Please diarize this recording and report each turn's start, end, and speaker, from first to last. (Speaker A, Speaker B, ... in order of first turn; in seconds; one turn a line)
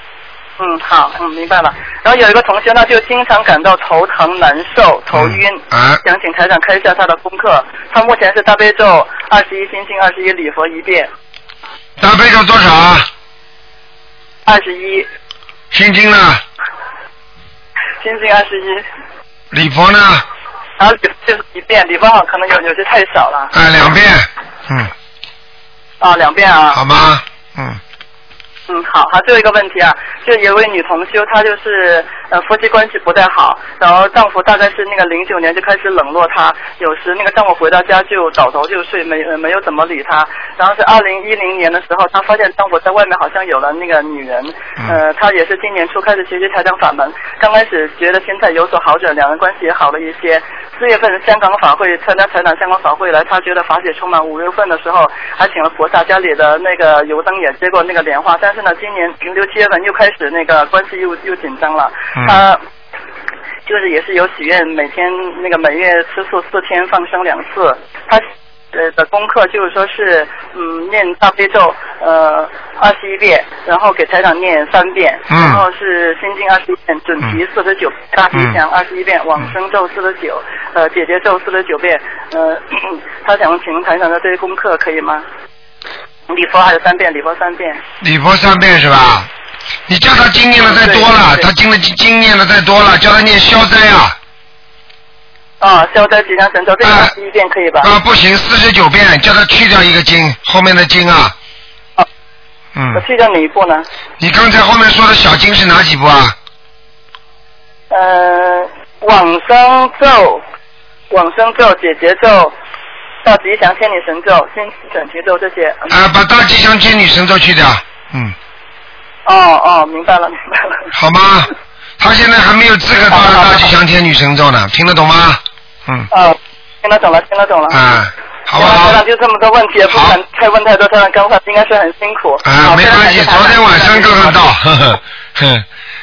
Speaker A: 0.6-11.1
Speaker B: 5.1-6.0
Speaker B: 12.0-13.1
Speaker A: 14.4-15.1
Speaker B: 15.7-16.4
Speaker A: 18.0-18.8
Speaker B: 19.5-20.2
Speaker A: 20.8-23.5
Speaker B: 23.5-24.9
Speaker A: 26.0-26.8
Speaker B: 26.7-27.8
Speaker A: 28.7-62.6
Speaker A: 63.6-85.2
Speaker B: 75.3-75.6
Speaker A: 86.3-87.8
Speaker B: 88.0-89.3
Speaker B: 89.9-94.2
Speaker A: 90.6-91.5
Speaker A: 95.6-97.9
Speaker B: 96.8-97.1
Speaker B: 97.8-101.3
Speaker B: 102.7-103.0
Speaker A: 102.9-103.8
Speaker B: 104.2-106.3
Speaker A: 107.9-110.4
Speaker A: 111.1-112.5
Speaker A: 113.2-115.9
Speaker B: 115.9-118.3
Speaker A: 119.2-120.9
Speaker B: 120.9-126.1
Speaker A: 123.1-123.7
Speaker A: 126.1-127.9
Speaker B: 127.7-129.0
Speaker A: 128.6-134.3
Speaker B: 129.9-130.2
Speaker B: 132.4-135.6